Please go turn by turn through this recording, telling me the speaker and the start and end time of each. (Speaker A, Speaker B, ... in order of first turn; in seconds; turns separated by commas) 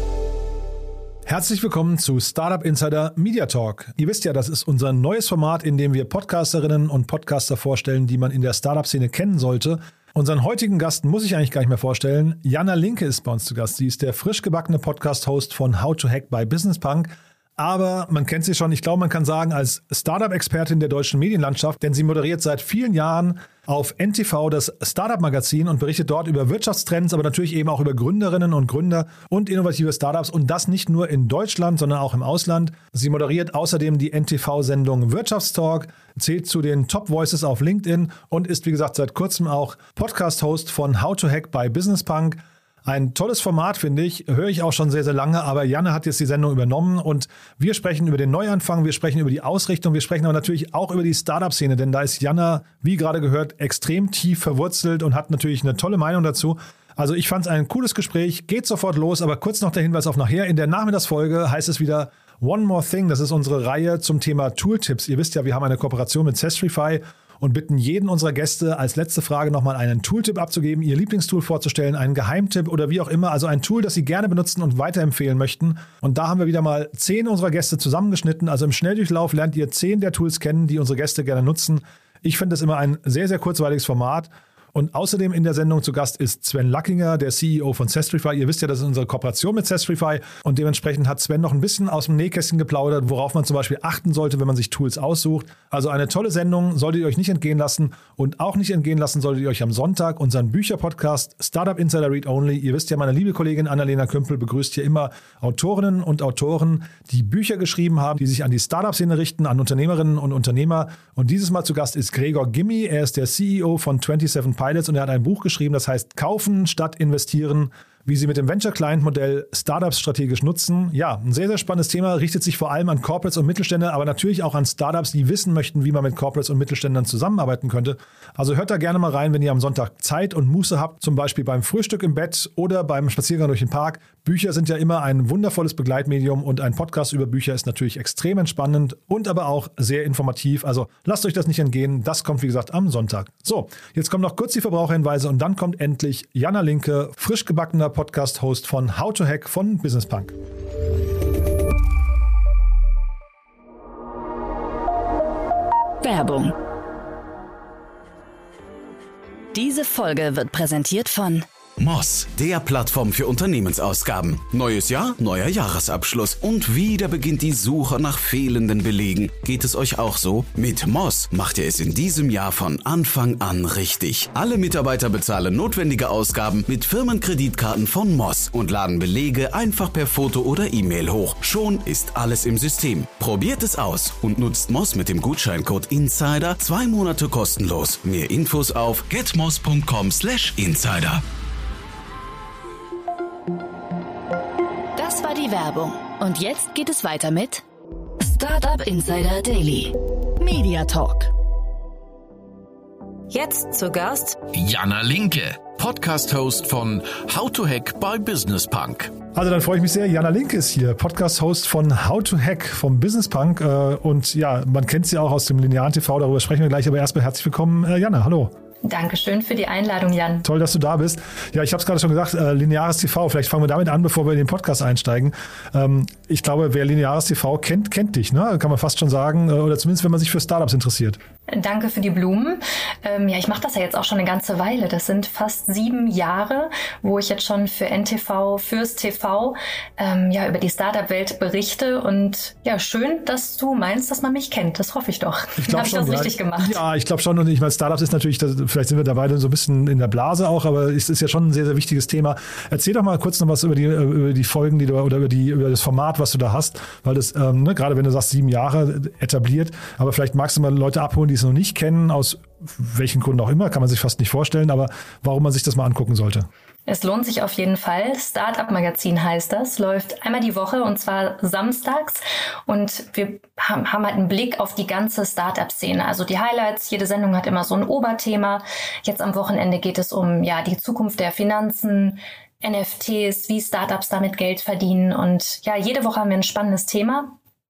Speaker A: 1.3-150.3, Speaker B: 156.0-156.6, Speaker B: 159.5-161.5, Speaker C: 161.8-191.2, Speaker B: 195.0-197.7, Speaker B: 198.2-201.3, Speaker B: 203.3-204.4, Speaker D: 204.5-209.2, Speaker A: 209.3-218.5, Speaker E: 218.8-220.5, Speaker A: 220.4-231.2, Speaker E: 231.5-246.8, Speaker A: 245.6-266.5, Speaker E: 266.9-287.3